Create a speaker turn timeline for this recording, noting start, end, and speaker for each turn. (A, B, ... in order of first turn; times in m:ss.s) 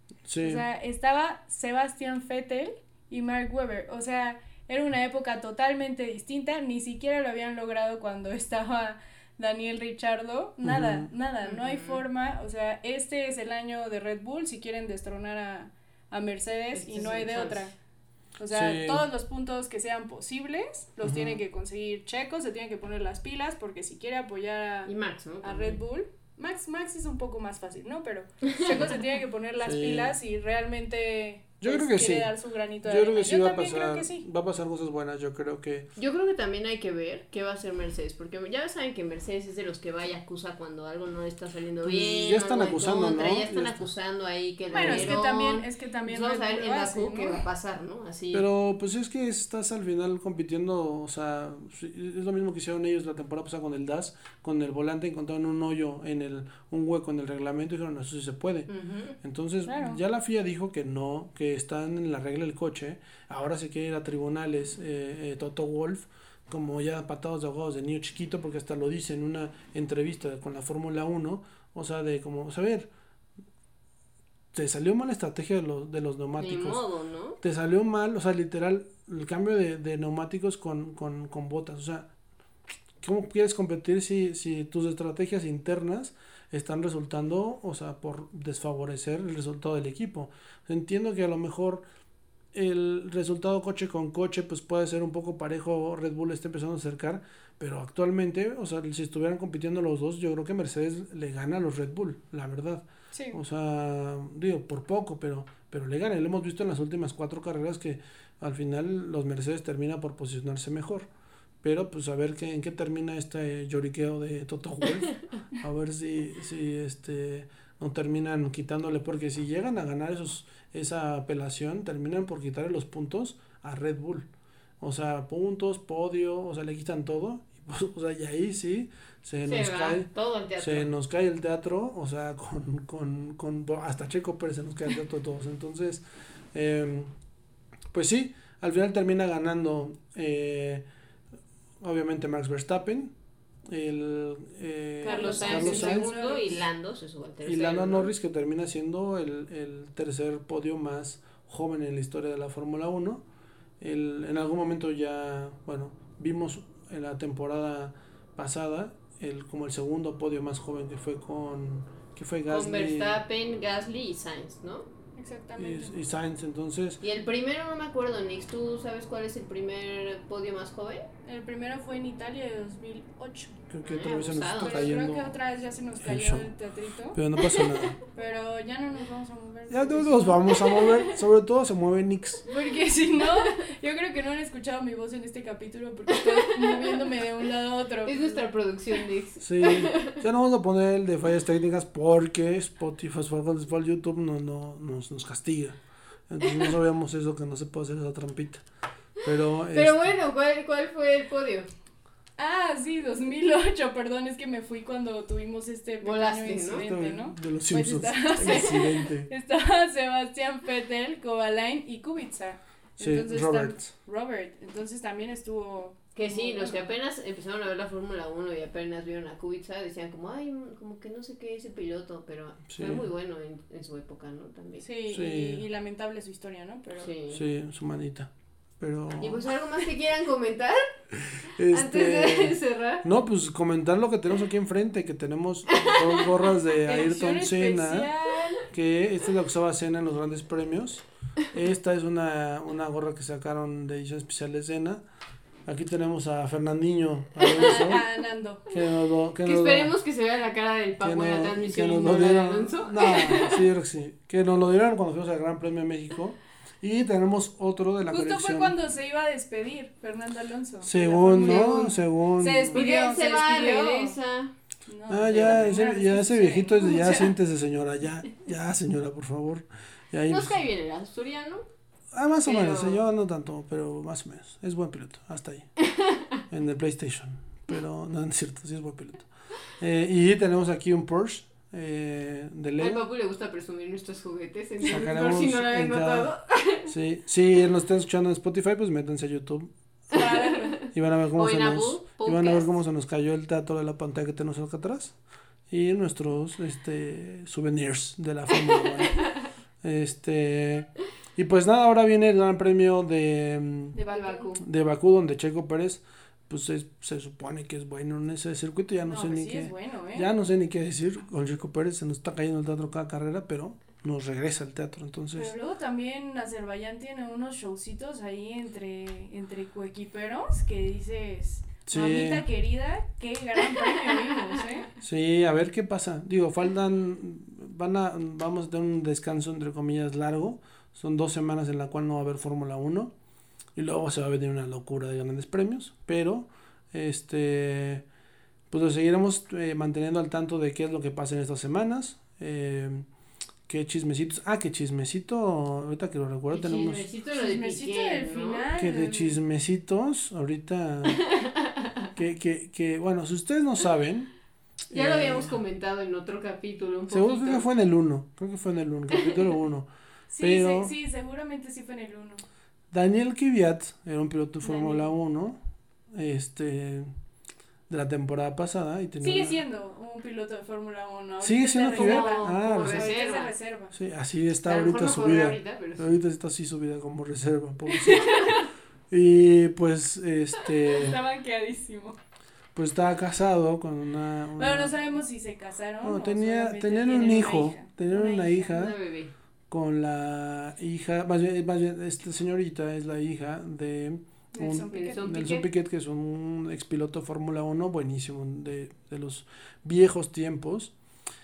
0:00.3-0:00.6 A
0:00.4-0:17.7 B
0:10.6-0:11.1 A
0:11.4-0:12.0 C
0:16.7-0:17.7 C
0:18.4-0:34.2 B
0:18.5-0:19.0 A
0:21.0-0:21.4 A
0:24.9-0:25.8 C
0:29.6-0:30.2 A
0:31.6-0:32.3 A
0:32.8-0:35.9 A
0:36.0-0:48.4 C
0:41.8-0:43.8 A
0:44.7-0:47.4 B
0:44.8-0:45.2 A
0:48.3-0:58.7 A
0:58.7-0:59.2 C
0:59.2-1:12.9 A
0:59.7-1:00.0 B
1:14.5-1:16.8 A
1:16.4-1:17.4 C
1:17.4-1:22.1 A
1:23.0-1:31.8 A
1:32.5-1:51.1 A
1:43.1-1:43.4 B
1:51.6-2:04.3 A
2:04.8-2:10.1 A
2:09.4-2:10.9 C
2:10.6-2:16.0 A
2:16.5-2:17.1 A
2:17.9-2:20.8 A
2:21.8-2:23.1 A
2:23.7-2:26.1 A
2:25.0-2:26.6 B
2:25.0-2:28.1 C
2:27.4-2:33.2 A
2:33.8-2:43.2 A
2:42.5-2:44.9 C
2:45.2-2:45.9 B
2:45.6-2:47.0 A
2:47.0-2:51.1 C
2:51.2-2:53.6 B
2:53.7-2:55.4 A
2:53.8-2:54.9 C
2:54.5-2:57.3 B
2:56.0-2:56.5 A
2:57.1-2:58.0 A
2:58.1-3:00.9 B
2:59.7-3:02.4 A
3:02.5-3:08.4 B
3:06.4-3:07.0 C
3:08.0-3:10.2 C
3:09.4-3:15.8 A
3:16.3-3:18.6 A
3:19.2-3:20.1 A
3:19.7-3:21.7 C
3:22.4-3:36.9 B
3:26.0-3:26.9 C
3:26.7-3:29.3 A
3:33.0-3:33.9 A
3:36.2-3:44.9 C
3:42.7-3:43.0 A
3:44.8-3:47.1 B
3:45.1-3:45.6 A
3:47.0-3:47.4 C
3:47.3-3:49.5 A
3:49.2-3:50.8 C
3:51.1-3:58.1 A
3:51.7-3:53.1 C
3:55.7-3:56.3 C
3:56.8-3:58.7 B
3:58.6-4:05.0 A
4:05.7-4:08.0 A
4:07.4-4:08.6 B
4:08.7-4:09.9 A
4:09.4-4:13.6 C
4:11.0-4:18.8 A
4:18.1-4:24.2 B
4:20.8-4:22.8 A
4:21.3-4:21.8 C
4:22.7-4:24.5 C
4:24.9-4:27.3 B
4:25.1-4:30.6 A
4:30.3-4:31.7 C
4:32.1-4:35.7 A
4:32.4-4:33.0 C
4:35.8-4:36.4 C
4:36.5-4:39.3 A
4:39.8-4:43.0 A
4:42.8-4:46.9 C
4:44.8-4:46.3 A
4:46.9-4:50.3 A
4:50.1-4:52.8 C
4:50.1-4:50.8 B
4:50.9-4:55.2 A
4:55.7-4:59.3 A
4:59.8-5:04.0 A
5:04.0-5:04.6 B
5:04.0-5:04.6 C
5:04.6-5:15.5 A
5:09.1-5:10.3 B
5:15.4-5:24.9 B
5:21.9-5:22.4 A
5:24.1-5:24.6 C
5:25.0-5:33.1 A
5:33.8-5:38.0 A
5:38.7-5:43.1 A
5:43.7-5:47.0 A
5:46.5-5:48.7 C
5:47.3-5:49.4 B
5:48.8-5:51.2 A
5:51.1-5:52.1 C
5:52.2-5:54.3 A
5:54.9-5:55.6 A
5:54.9-5:57.7 C
5:57.1-5:59.9 A
6:00.3-6:02.4 B
6:00.4-6:00.9 A
6:02.9-6:05.6 A
6:04.6-6:05.1 B
6:06.1-6:07.1 A
6:07.9-6:09.6 A
6:09.2-6:13.9 B
6:11.4-6:13.2 A
6:11.9-6:13.6 C
6:13.9-6:21.2 A
6:14.7-6:16.1 C
6:17.9-6:18.7 B
6:20.9-6:22.2 B
6:22.8-6:25.0 A
6:24.6-6:28.8 B
6:26.0-6:28.9 A
6:28.7-6:29.3 C
6:29.7-6:40.9 A
6:34.5-6:35.5 B
6:34.9-6:35.7 C